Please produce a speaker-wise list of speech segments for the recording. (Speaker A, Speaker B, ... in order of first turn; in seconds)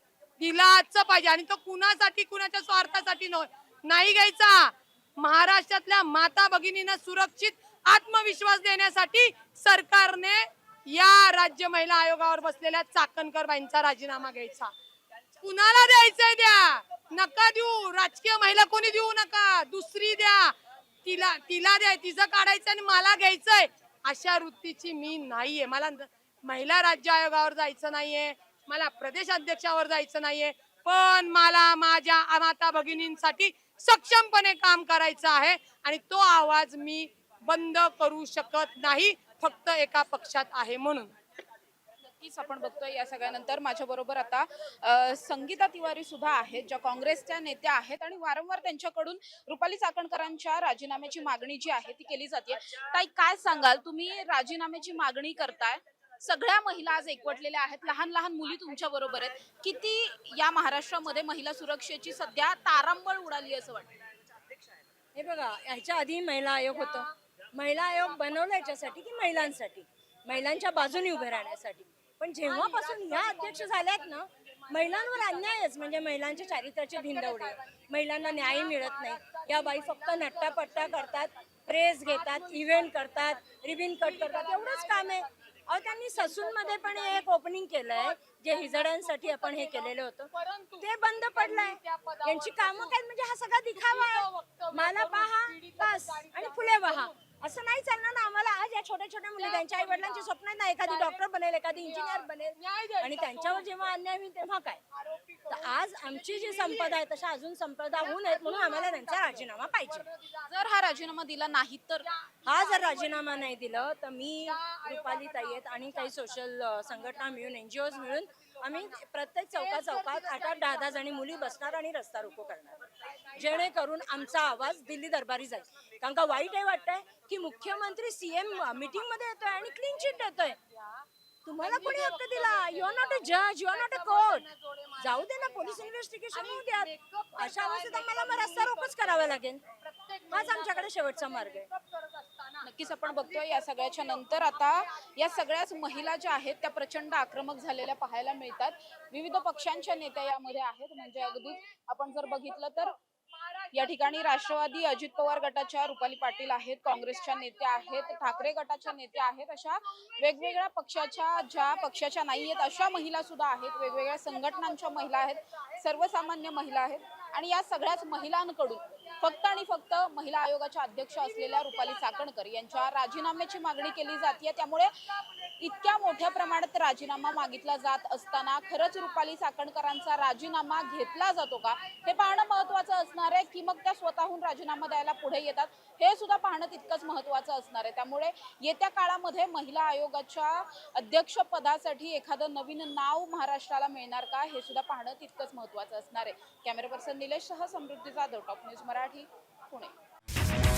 Speaker A: 0.4-14.7, 15.4-20.5, 21.0-41.1, 66.7-67.1, 68.0-69.5, 70.9-71.5, 72.4-81.3, 82.0-85.3, 85.9-87.3, 87.9-93.0, 93.8-97.2, 99.4-103.9, 104.9-107.0, 107.9-110.4, 112.0-113.5, 114.4-122.5, 123.3-125.0, 127.2-131.1, 131.6-144.8
Speaker B: 42.2-63.9, 110.5-112.1, 142.6-152.9, 153.7-174.9, 175.6-199.9
Speaker C: 65.1-90.3, 90.8-104.8, 105.5-110.0, 112.5-122.7, 123.3-130.6, 131.4-134.4, 135.0-139.6, 140.3-141.7